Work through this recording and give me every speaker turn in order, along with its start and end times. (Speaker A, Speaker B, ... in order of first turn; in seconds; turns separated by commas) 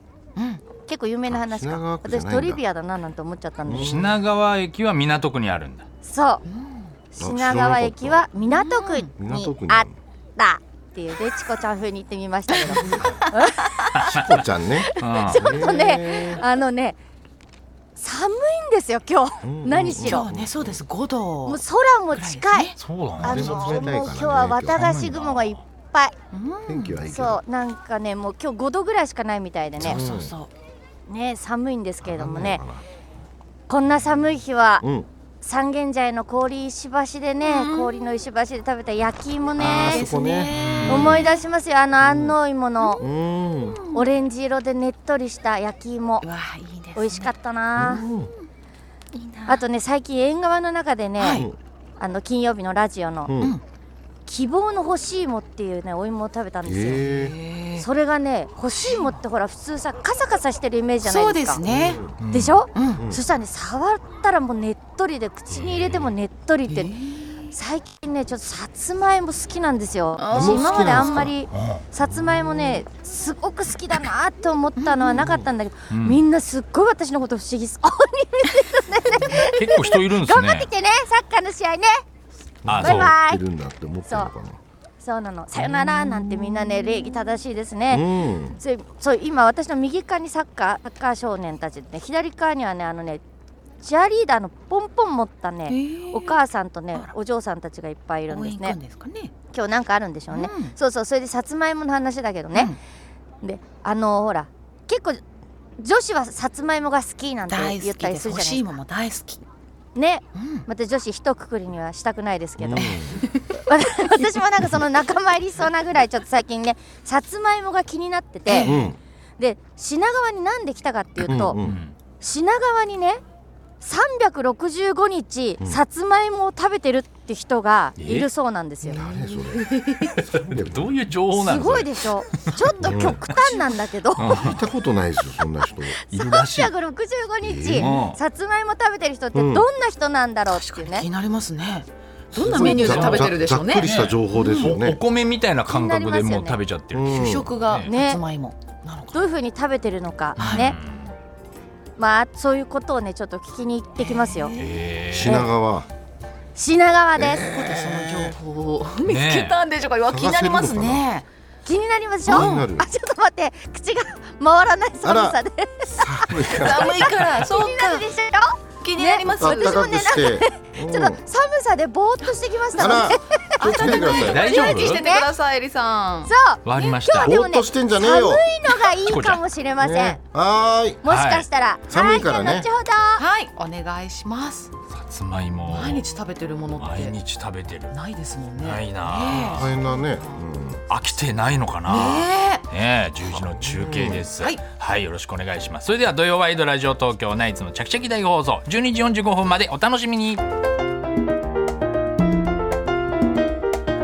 Speaker A: 0.3-0.6, Speaker B: 0.8-3.9, Speaker C: 1.3-2.6, Speaker C: 3.6-4.2, Speaker D: 3.7-5.8, Speaker B: 6.0-6.4, Speaker A: 6.5-6.9, Speaker B: 7.1-14.1, Speaker C: 7.2-8.2, Speaker A: 8.5-9.1, Speaker C: 9.2-10.0, Speaker A: 12.6-13.4, Speaker D: 14.0-14.3, Speaker C: 14.1-16.4, Speaker B: 14.9-17.0, Speaker D: 15.0-15.6, Speaker B: 17.9-20.3, Speaker C: 19.4-20.8, Speaker A: 20.0-21.6, Speaker B: 21.4-26.1, Speaker A: 22.1-22.8, Speaker D: 22.8-23.8, Speaker C: 23.2-25.1, Speaker D: 24.7-25.6, Speaker A: 26.3-27.0, Speaker C: 26.7-27.4, Speaker B: 27.1-30.0, Speaker C: 29.8-30.3, Speaker A: 29.8-30.5, Speaker B: 31.1-32.6, Speaker C: 32.0-32.8, Speaker B: 33.7-34.9, Speaker C: 34.8-35.1, Speaker B: 35.4-40.1, Speaker A: 37.4-38.1, Speaker C: 39.6-41.2, Speaker A: 39.6-41.4, Speaker D: 40.6-41.0, Speaker B: 40.9-43.0, Speaker C: 42.0-42.3, Speaker C: 43.0-43.8, Speaker A: 43.6-44.0, Speaker B: 43.9-46.2, Speaker A: 46.2-47.3, Speaker B: 47.0-48.0, Speaker C: 47.7-48.3, Speaker A: 49.1-49.6, Speaker B: 49.5-51.5, Speaker A: 51.2-51.5, Speaker B: 52.0-53.3, Speaker C: 53.2-53.5, Speaker B: 54.2-57.1, Speaker C: 56.6-57.4, Speaker A: 56.9-57.9, Speaker B: 57.8-61.6, Speaker A: 58.7-59.1, Speaker A: 61.0-62.0, Speaker C: 61.6-62.2, Speaker D: 62.2-62.6, Speaker B: 62.3-66.9, Speaker A: 62.7-63.0, Speaker D: 65.5-66.1, Speaker A: 66.7-67.5, Speaker B: 67.5-82.0, Speaker A: 70.2-71.2, Speaker C: 70.3-71.3, Speaker D: 71.5-71.8, Speaker A: 74.8-75.3, Speaker D: 75.9-76.2, Speaker D: 79.3-80.7, Speaker C: 82.6-84.6, Speaker D: 82.7-83.1, Speaker B: 82.8-83.4, Speaker B: 85.0-93.2, Speaker C: 87.9-88.6, Speaker B: 93.8-98.8, Speaker A: 95.7-96.4, Speaker A: 98.3-99.3, Speaker B: 99.5-102.7, Speaker A: 100.3-100.7, Speaker B: 103.4-105.2, Speaker B: 105.8-108.6, Speaker A: 107.5-109.4, Speaker B: 109.9-118.8, Speaker A: 110.3-110.7, Speaker C: 112.6-113.2, Speaker A: 118.5-118.9, Speaker C: 118.6-119.0, Speaker B: 119.4-121.6, Speaker D: 121.3-121.9, Speaker C: 121.3-121.8, Speaker B: 122.2-123.2, Speaker B: 123.8-129.0, Speaker D: 128.0-128.3, Speaker A: 128.8-130.2, Speaker C: 128.9-130.9, Speaker D: 130.1-133.4, Speaker B: 131.3-134.6, Speaker C: 132.8-133.2, Speaker D: 134.1-134.6, Speaker C: 134.3-136.0, Speaker B: 136.1-141.1, Speaker D: 136.1-136.7, Speaker C: 137.4-137.9, Speaker D: 137.7-138.2, Speaker C: 139.3-139.7, Speaker A: 140.5-144.7, Speaker C: 142.3-145.0, Speaker B: 142.5-142.9, Speaker D: 142.7-147.9, Speaker B: 145.7-146.6, Speaker C: 146.9-147.5, Speaker A: 147.1-149.3, Speaker B: 147.8-148.2, Speaker B: 149.1-150.8, Speaker A: 150.4-150.7, Speaker D: 150.4-151.1, Speaker B: 152.0-154.5, Speaker A: 154.0-154.8, Speaker D: 154.6-155.5, Speaker C: 155.1-155.9, Speaker B: 155.2-155.5, Speaker B: 156.6-157.5, Speaker C: 157.2-158.3, Speaker A: 157.4-161.3, Speaker D: 159.0-159.6, Speaker C: 160.1-161.0, Speaker B: 161.6-175.3, Speaker C: 162.2-162.8, Speaker A: 162.3-162.7, Speaker C: 165.0-167.1, Speaker A: 166.4-168.1, Speaker A: 168.8-170.1, Speaker C: 169.4-171.2, Speaker A: 172.7-176.3, Speaker C: 172.8-174.6, Speaker D: 174.1-175.1, Speaker B: 176.3-180.2, Speaker D: 176.6-177.4, Speaker C: 177.2-178.4, Speaker D: 178.9-179.4, Speaker C: 179.8-181.0, Speaker B: 181.0-183.2, Speaker D: 181.1-181.4, Speaker C: 181.9-182.7, Speaker A: 183.2-184.7, Speaker D: 184.9-186.0, Speaker A: 185.7-187.1, Speaker D: 186.8-187.9, Speaker A: 187.9-190.4, Speaker D: 188.6-189.8, Speaker C: 189.3-190.8, Speaker D: 190.9-200.4, Speaker A: 191.9-192.6, Speaker C: 193.7-194.2, Speaker A: 194.3-194.6